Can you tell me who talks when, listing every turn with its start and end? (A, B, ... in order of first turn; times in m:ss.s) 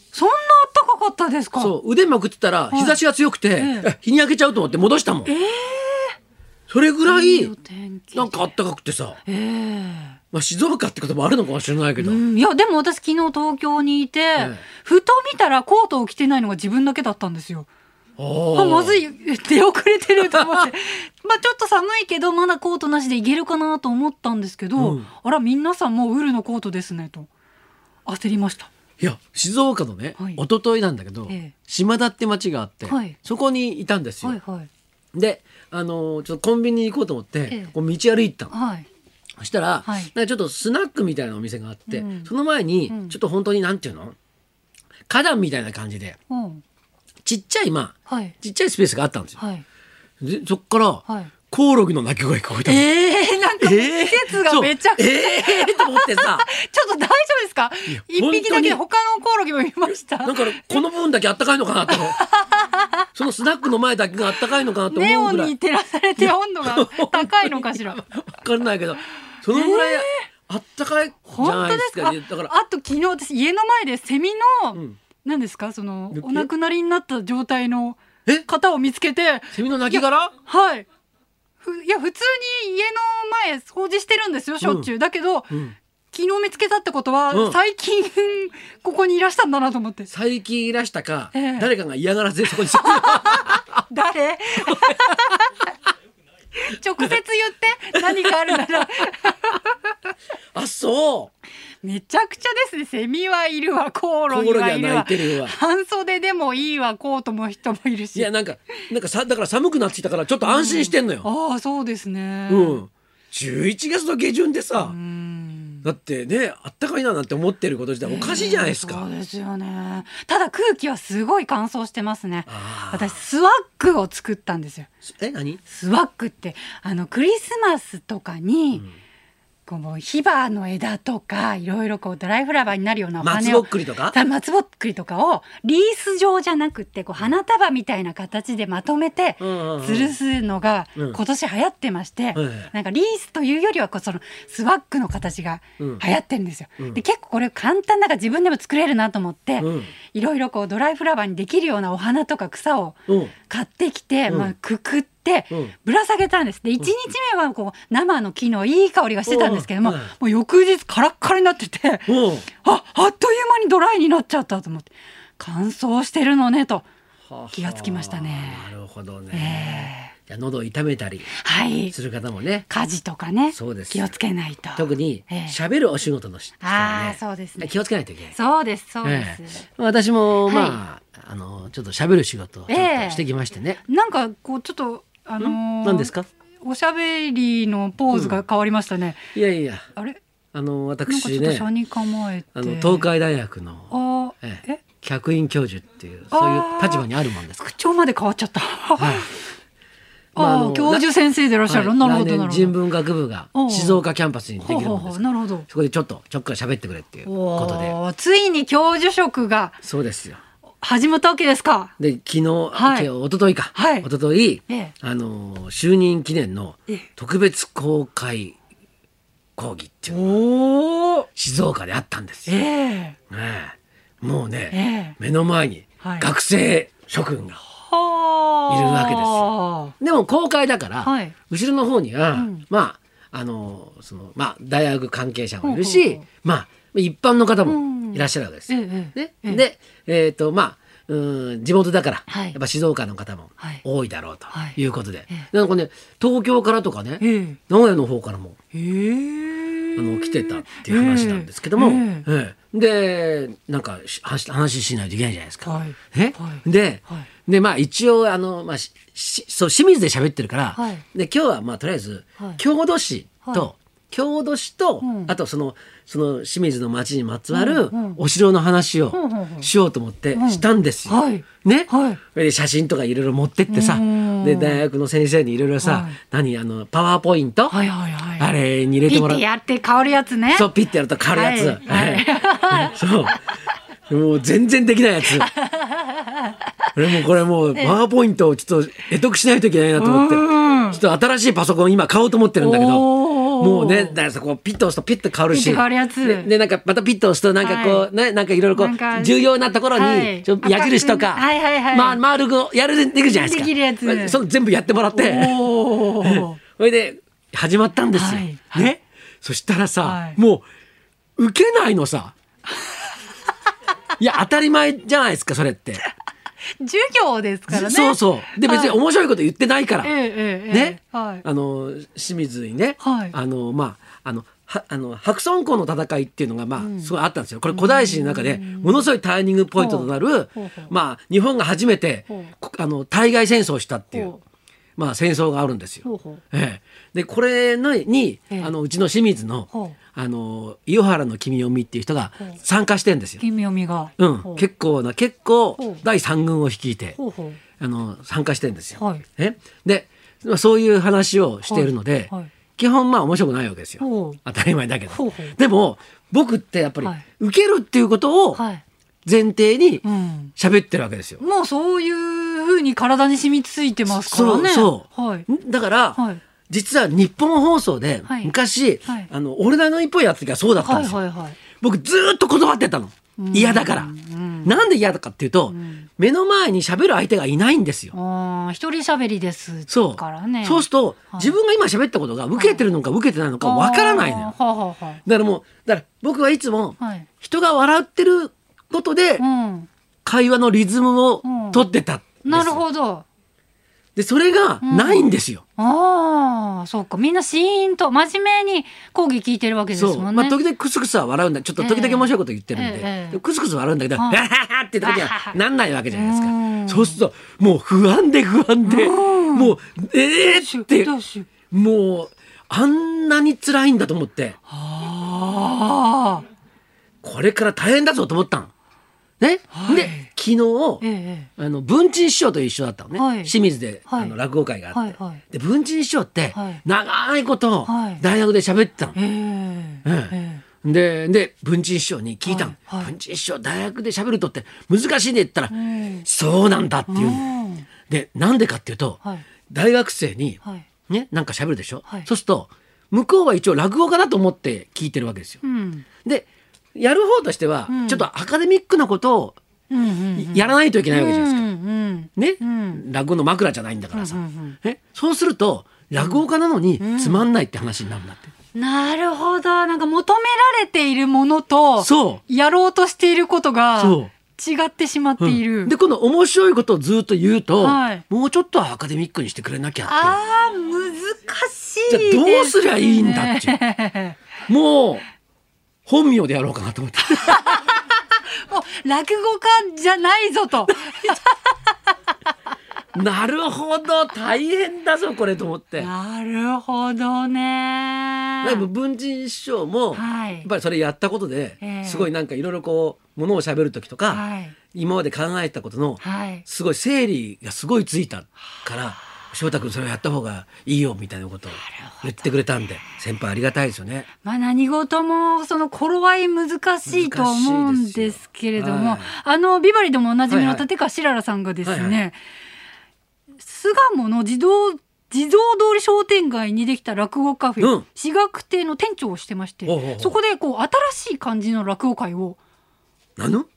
0:00.1-0:01.8 A
0:01.6-0:05.3 B
0:02.7-0:03.0 A
0:03.6-0:03.9 A
0:05.3-0:06.2 A
0:06.7-0:07.5 B
0:07.1-0:08.5 A
0:08.1-0:09.2 B
0:09.2-0:10.2 A
0:10.3-0:12.2 B
0:12.0-0:17.7 A
0:14.4-0:14.6 B
0:18.2-0:19.0 B
0:18.5-0:27.3 A
0:20.2-0:20.7 B
0:24.8-0:25.1 B
0:28.1-0:28.7 A
0:29.0-0:34.4 B
0:31.3-0:31.5 A
0:32.9-0:33.2 A
0:34.2-0:34.7 A
0:35.1-0:38.5 B
0:37.5-0:37.7 A
0:38.5-0:38.9 A
0:39.4-0:44.2 B
0:39.8-0:40.1 A
0:41.9-0:42.3 A
0:42.9-0:43.2 A
0:45.1-0:46.2 B
0:46.3-0:46.6 A
0:47.2-0:49.4 B
0:48.1-0:48.4 A
0:49.4-0:49.6 A
0:50.2-0:52.9 B
0:51.1-0:51.3 A
0:52.7-1:00.8 A
0:53.6-0:56.5 B
0:57.9-0:58.8 B
1:00.2-1:02.2 B
1:01.9-1:03.0 A
1:03.2-1:05.5 B
1:04.9-1:08.0 A
1:06.2-1:12.5 B
1:09.5-1:10.2 A
1:11.3-1:20.9 A
1:16.1-1:16.5 B
1:19.5-1:20.3 B
1:21.6-1:25.6 A
1:24.6-1:24.9 B
1:26.1-1:30.1 A
1:27.3-1:27.6 B
1:30.1-1:33.7 B
1:31.3-1:31.7 A
1:32.7-1:35.6 A
1:36.6-1:39.7 A
1:38.0-1:38.5 B
1:40.6-1:41.3 B
1:41.8-1:48.3 A
1:44.3-1:45.6 B
1:48.1-1:51.3 B
1:50.4-1:52.8 A
1:52.5-1:55.0 B
1:54.8-1:55.9 A
1:55.8-1:59.1 B
1:58.0-2:04.9 A
2:02.5-2:03.2 B
2:05.0-2:05.6 B
2:05.7-2:08.9 A
2:09.7-2:42.1 A
2:13.2-2:14.2 B
2:19.4-2:20.2 B
2:22.4-2:22.7 B
2:25.8-2:26.0 B
2:29.6-2:29.9 B
2:33.1-2:33.3 B
2:39.3-2:40.1 B
2:42.1-2:42.5 B
2:42.6-2:46.9 A
2:47.3-2:51.3 B
2:47.5-2:48.7 A
2:49.3-2:50.1 A
2:51.3-2:51.9 A
2:51.9-2:52.7 B
2:52.7-2:55.6 A
2:53.5-2:54.2 B
2:54.8-2:58.4 B
2:56.6-2:57.7 A
2:58.3-2:59.6 A
2:59.0-3:03.8 B
3:00.4-3:00.8 A
3:02.7-3:03.2 A
3:03.9-3:09.3 A
3:05.4-3:06.3 B
3:08.1-3:08.4 B
3:09.3-3:09.9 B
3:10.5-3:11.7 B
3:11.1-3:13.1 A
3:12.6-3:17.7 B
3:13.9-3:14.8 A
3:16.3-3:17.1 A
3:17.6-3:19.4 A
3:19.0-3:19.3 B
3:20.4-3:21.1 B
3:20.4-3:22.8 A
3:21.7-3:28.0 B
3:23.6-3:24.0 A
3:24.6-3:25.7 A
3:27.2-3:29.8 A
3:29.8-3:30.4 B
3:30.8-3:31.9 A
3:32.0-3:38.6 B
3:32.7-3:33.1 A
3:33.7-3:34.1 A
3:34.7-3:34.9 A
3:39.6-3:40.4 B
3:40.1-3:41.2 A
3:41.2-3:42.6 B
3:42.5-3:43.2 A
3:43.3-3:47.6 B
3:44.7-3:45.2 A
3:46.0-3:46.3 A
3:47.8-3:49.9 A
3:48.7-4:08.6 B
3:51.0-3:51.4 A
3:52.3-3:52.6 A
3:55.6-3:56.2 A
3:57.7-3:59.6 A
4:02.3-4:02.6 A
4:04.5-4:04.8 A
4:07.2-4:07.6 A
4:08.7-4:12.3 A
4:10.0-4:37.8 B
4:15.6-4:17.3 A
4:20.8-4:21.0 A
4:25.0-4:25.4 A
4:27.5-4:28.2 A
4:29.1-4:29.7 A
4:30.3-4:32.2 A
4:33.7-4:34.8 A
4:35.8-4:36.2 A
4:37.7-4:38.5 A
4:38.4-4:39.4 B
4:39.1-4:40.7 A
4:40.5-4:43.4 B
4:41.3-4:42.9 A
4:44.1-4:45.5 B
4:45.5-4:46.6 A
4:47.0-5:10.6 B
4:50.0-4:51.0 A
4:52.6-4:54.2 A
4:55.5-4:56.5 A
4:57.6-4:58.1 A
4:58.8-4:59.4 A
4:59.9-5:02.2 A
5:03.3-5:04.4 A
5:05.1-5:06.6 A
5:08.1-5:09.0 A
5:10.0-5:10.4 A
5:11.4-5:12.3 B
5:14.2-5:16.0 B
5:16.8-5:19.0 A
5:17.7-5:20.2 B
5:20.0-5:21.4 A
5:20.7-5:34.4 B
5:23.0-5:23.4 A
5:26.8-5:27.1 A
5:27.7-5:29.1 A
5:29.8-5:30.9 A
5:34.1-5:34.4 A
5:35.0-5:43.4 B
5:36.0-5:36.4 A
5:39.7-5:40.0 A
5:43.4-5:44.6 A
5:44.2-5:47.2 B
5:45.8-5:46.0 A
5:47.2-5:47.6 A
5:47.8-5:58.6 B
5:49.0-5:49.2 A
5:51.7-5:52.5 A
5:54.0-5:54.4 A
5:55.1-5:55.6 A
5:58.6-5:58.8 A
5:59.2-6:00.0 B
6:00.0-6:00.5 A
6:00.6-6:01.4 B
6:01.4-6:05.5 A
6:04.1-6:11.2 B
6:06.2-6:06.4 A
6:08.3-6:08.5 A
6:10.8-6:11.6 A
6:11.8-6:14.1 B
6:13.4-6:14.8 A
6:14.6-6:18.1 B
6:15.7-6:16.1 A
6:18.1-6:21.5 A
6:19.9-6:24.5 B
6:22.6-6:22.8 A
6:23.6-6:25.2 A
6:25.2-6:29.4 B
6:27.0-6:27.3 A
6:29.4-6:29.9 A
6:30.2-6:32.8 B
6:31.4-6:31.9 A
6:32.4-6:33.2 A
6:34.2-6:35.6 B
6:34.8-6:40.6 A
6:39.9-6:51.1 B
6:41.8-6:43.4 A
6:44.2-6:44.4 A
6:45.0-6:45.6 A
6:46.1-6:47.2 A
6:48.8-6:49.8 A
6:50.4-6:51.5 A
6:51.7-6:54.6 B
6:54.7-6:56.5 A
6:57.2-6:58.7 B
6:59.4-7:01.0 B
6:59.7-7:00.3 A
7:01.0-7:01.5 A
7:01.6-7:09.2 B
7:03.2-7:03.5 A
7:04.1-7:04.4 A
7:04.9-7:05.4 A
7:06.5-7:06.8 A
7:07.9-7:08.2 A
7:09.2-7:10.6 A
7:10.0-7:17.5 B
7:12.5-7:13.1 A
7:15.7-7:16.3 A
7:17.1-7:17.9 A
7:18.1-7:25.6 B
7:25.6-7:26.1 A
7:26.2-7:29.6 B
7:27.9-7:28.3 A
7:29.9-7:33.0 A
7:30.4-7:31.7 B
7:32.4-7:38.5 B
7:34.1-7:34.8 A
7:37.0-7:37.5 A
7:38.8-7:45.9 A
7:42.0-7:42.4 B
7:44.0-7:44.3 B
7:45.4-7:50.4 B
7:47.8-7:48.2 A
7:50.1-7:54.4 A
7:52.1-7:53.8 B
7:54.7-7:55.2 B
7:56.1-7:57.7 B
7:57.3-8:01.8 A
8:03.1-8:06.1 B
8:06.0-8:08.9 A
8:08.6-8:24.3 B
8:10.1-8:10.7 A
8:11.8-8:12.3 A
8:14.3-8:14.8 A
8:16.2-8:16.7 A
8:21.7-8:22.5 A
8:24.4-8:32.4 A
8:27.1-8:29.3 B
8:30.5-8:30.9 B
8:31.8-8:32.2 B
8:33.6-8:42.6 A
8:37.8-8:38.0 B
8:39.8-8:40.4 B
8:43.4-8:43.7 B